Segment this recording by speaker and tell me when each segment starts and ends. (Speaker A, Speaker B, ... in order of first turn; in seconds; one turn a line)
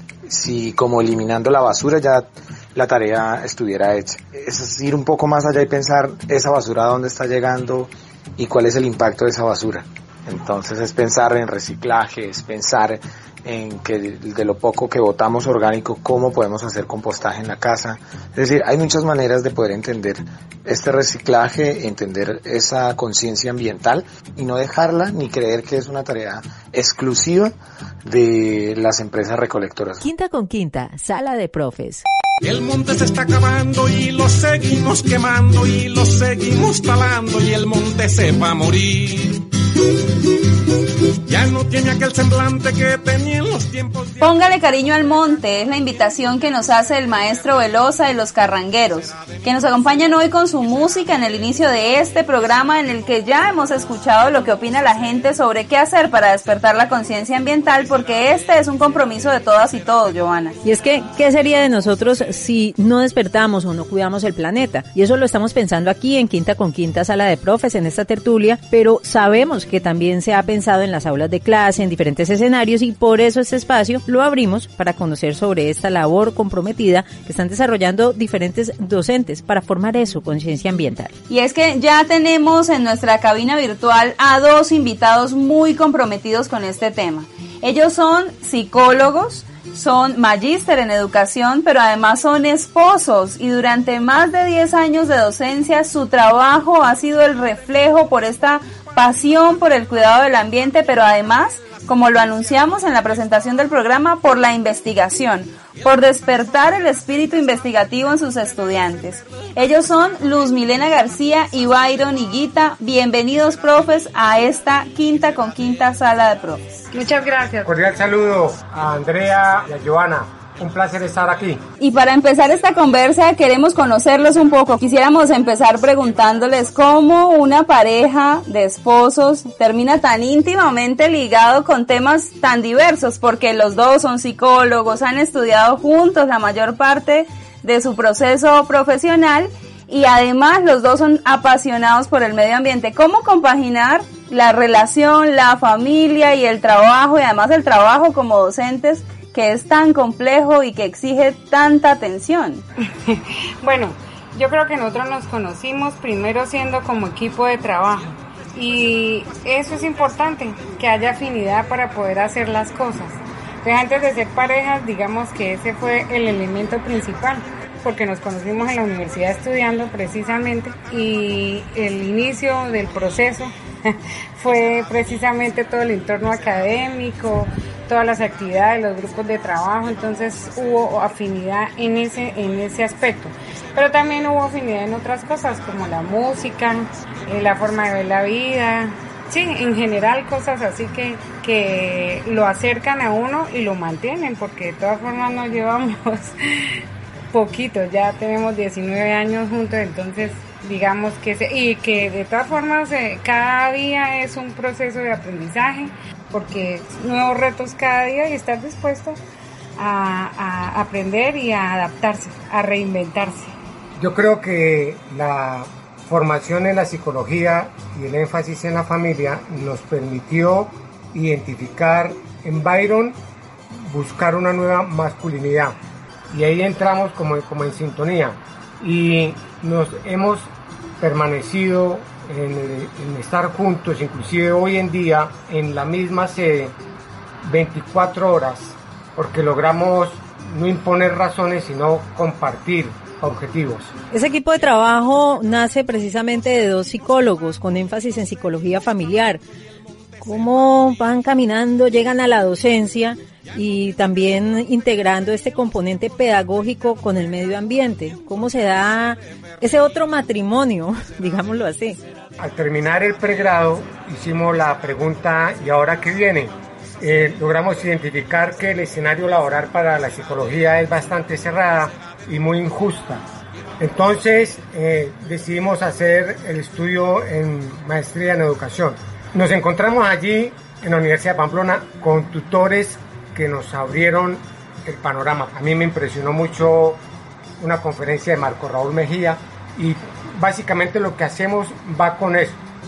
Speaker A: 0.3-30.0
Speaker B: 30.0-32.0
Speaker C: 32.4-39.4
Speaker C: 41.3-44.3
Speaker D: 44.2-60.6
Speaker B: 60.6-81.1
Speaker D: 81.3-116.6
Speaker E: 116.9-117.7
Speaker F: 117.6-121.6
Speaker D: 121.8-152.6
Speaker E: 153.0-196.8
Speaker E: 197.3-209.2
Speaker E: 209.8-213.5
Speaker F: 214.0-223.2
Speaker F: 223.9-225.8
Speaker F: 226.3-236.7
Speaker F: 237.4-243.9
Speaker B: 244.1-249.4
Speaker B: 250.2-262.0
Speaker F: 262.4-273.2
Speaker F: 273.8-287.0
Speaker F: 287.6-292.6